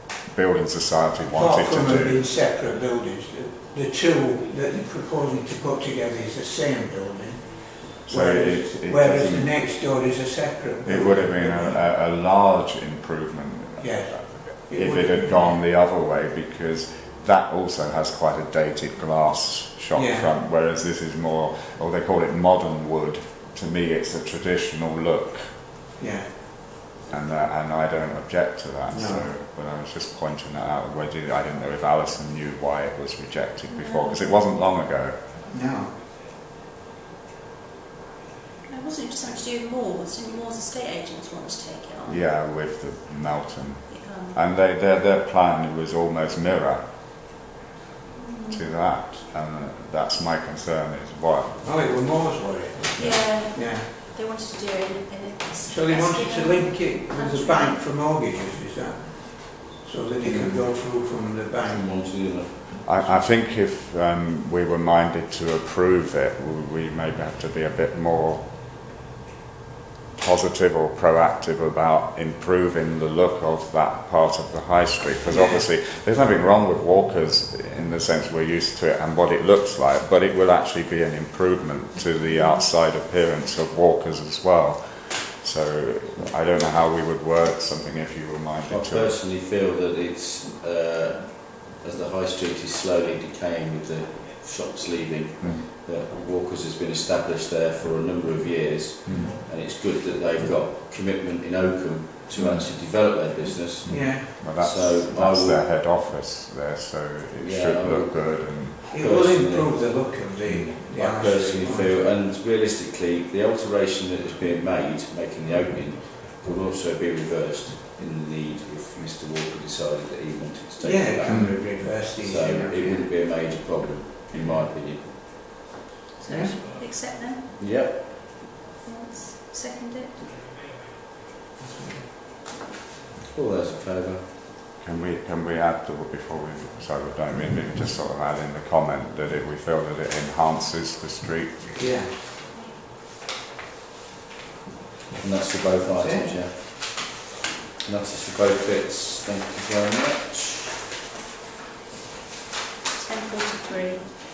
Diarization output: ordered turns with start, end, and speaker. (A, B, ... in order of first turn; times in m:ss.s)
0:00.3-0:02.2 A
0:01.3-0:11.8 B
0:08.0-0:09.5 A
0:10.8-0:26.0 A
0:13.8-0:15.6 B
0:19.9-0:20.3 B
0:26.0-0:26.4 B
0:27.1-0:35.3 A
0:28.9-0:29.3 B
0:33.7-0:34.5 C
0:35.5-0:36.0 B
0:38.7-0:42.2 C
0:42.1-0:46.9 A
0:43.9-0:44.4 C
0:48.2-0:48.6 C
0:48.5-0:51.9 A
0:51.6-0:53.9 B
0:53.0-0:53.2 A
0:53.0-0:57.8 C
0:55.7-1:02.0 B
1:00.2-1:00.7 D
1:01.6-1:03.2 D
1:02.8-1:08.5 A
1:10.2-1:29.2 A
1:22.3-1:22.6 C
1:28.7-1:45.6 D
1:35.4-1:35.7 A
1:39.0-1:39.4 A
1:42.4-1:42.7 A
1:43.9-1:44.4 B
1:43.9-1:48.9 A
1:47.4-1:49.9 D
1:48.9-1:52.0 B
1:50.4-1:50.8 A
1:50.7-2:05.2 D
2:00.8-2:03.1 B
2:01.3-2:01.6 A
2:06.2-2:07.5 C
2:06.3-2:06.6 B
2:07.6-2:08.3 D
2:08.8-2:10.3 C
2:11.6-2:12.1 B
2:13.3-2:14.4 D
2:14.8-2:21.8 A
2:21.8-2:22.2 B
2:25.2-2:27.2 D
2:25.9-2:26.3 B
2:27.8-2:30.8 D
2:33.0-2:34.1 C